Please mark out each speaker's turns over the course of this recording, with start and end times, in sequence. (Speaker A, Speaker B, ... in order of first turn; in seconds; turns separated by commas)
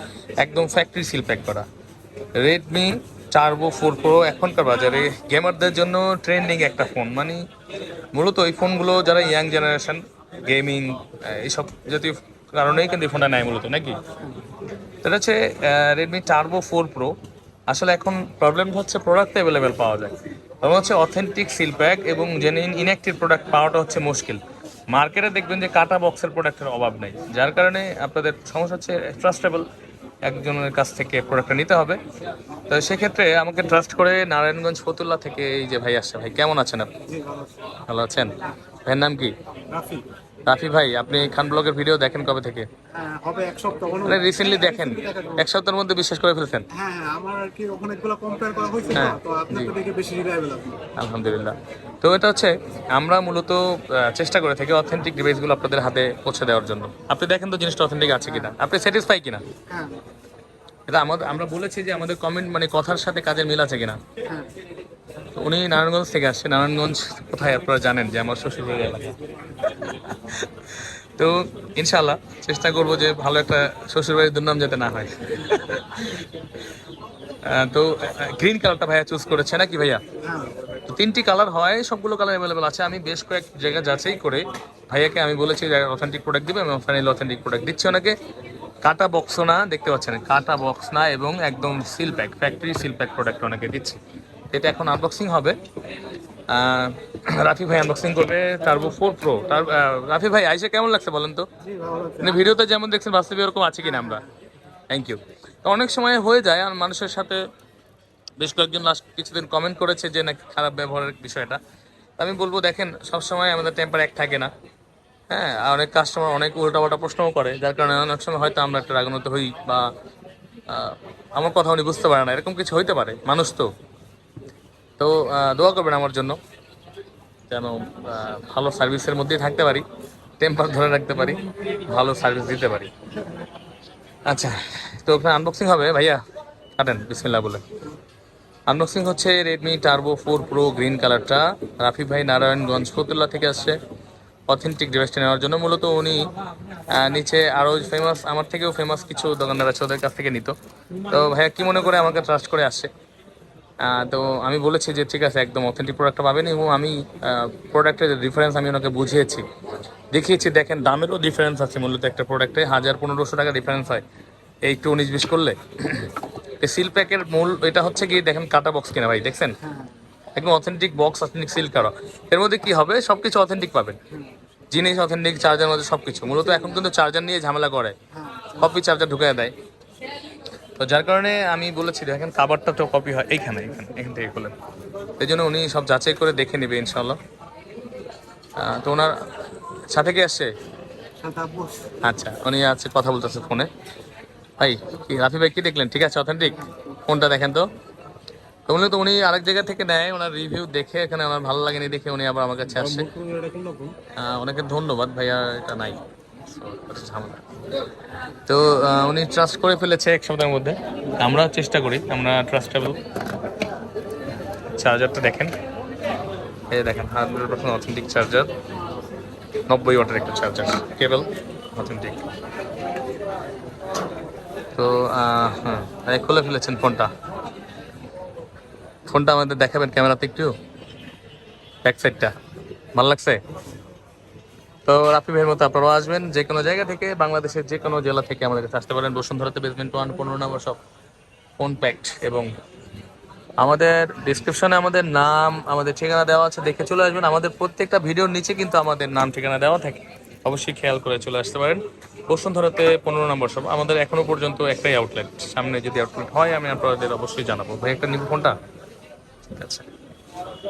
Speaker A: 0.4-1.7, Speaker A: 2.4-7.5, Speaker A: 8.1-14.0, Speaker A: 15.0-17.1, Speaker A: 17.7-29.7, Speaker A: 30.2-32.0, Speaker A: 32.7-36.9, Speaker B: 37.0-37.6, Speaker A: 37.9-39.3, Speaker B: 39.7-40.0, Speaker A: 40.5-42.7, Speaker B: 42.9-45.5, Speaker A: 44.0-46.7, Speaker B: 46.7-50.8, Speaker A: 48.9-49.8, Speaker A: 51.0-59.5, Speaker B: 58.3-58.5, Speaker B: 59.7-60.1, Speaker A: 60.9-64.0, Speaker A: 65.3-76.3, Speaker A: 77.4-80.0, Speaker B: 80.2-80.6, Speaker A: 80.9-88.2, Speaker A: 88.8-94.0, Speaker A: 94.5-95.6, Speaker A: 96.5-101.5, Speaker B: 101.6-102.4, Speaker A: 102.2-104.3, Speaker A: 104.9-107.4, Speaker A: 108.4-111.6, Speaker A: 112.2-114.5, Speaker A: 115.3-119.9, Speaker A: 120.7-123.7, Speaker A: 125.0-126.4, Speaker A: 127.5-129.9, Speaker A: 130.4-132.9, Speaker A: 134.3-136.2, Speaker A: 136.8-137.6, Speaker A: 138.7-143.8, Speaker A: 144.5-146.3, Speaker A: 146.9-152.9, Speaker A: 153.8-159.5, Speaker A: 160.1-164.0, Speaker A: 164.6-169.6, Speaker B: 169.7-169.9, Speaker A: 170.3-174.0, Speaker A: 174.7-178.0, Speaker B: 178.2-178.7, Speaker A: 178.5-179.6, Speaker A: 180.8-184.5, Speaker A: 185.2-187.2, Speaker A: 188.6-189.2, Speaker A: 189.9-190.5, Speaker B: 191.2-191.9, Speaker A: 192.0-193.7, Speaker A: 194.6-197.7, Speaker A: 198.7-203.1, Speaker B: 202.7-203.9, Speaker A: 204.2-207.5, Speaker A: 208.5-213.0, Speaker A: 214.7-215.6, Speaker A: 216.7-218.5, Speaker A: 219.7-222.3, Speaker A: 224.7-227.1, Speaker A: 229.1-230.6, Speaker A: 231.8-232.3, Speaker A: 232.9-233.4, Speaker A: 234.9-240.8, Speaker A: 241.6-242.5, Speaker A: 243.6-258.6, Speaker A: 259.5-259.9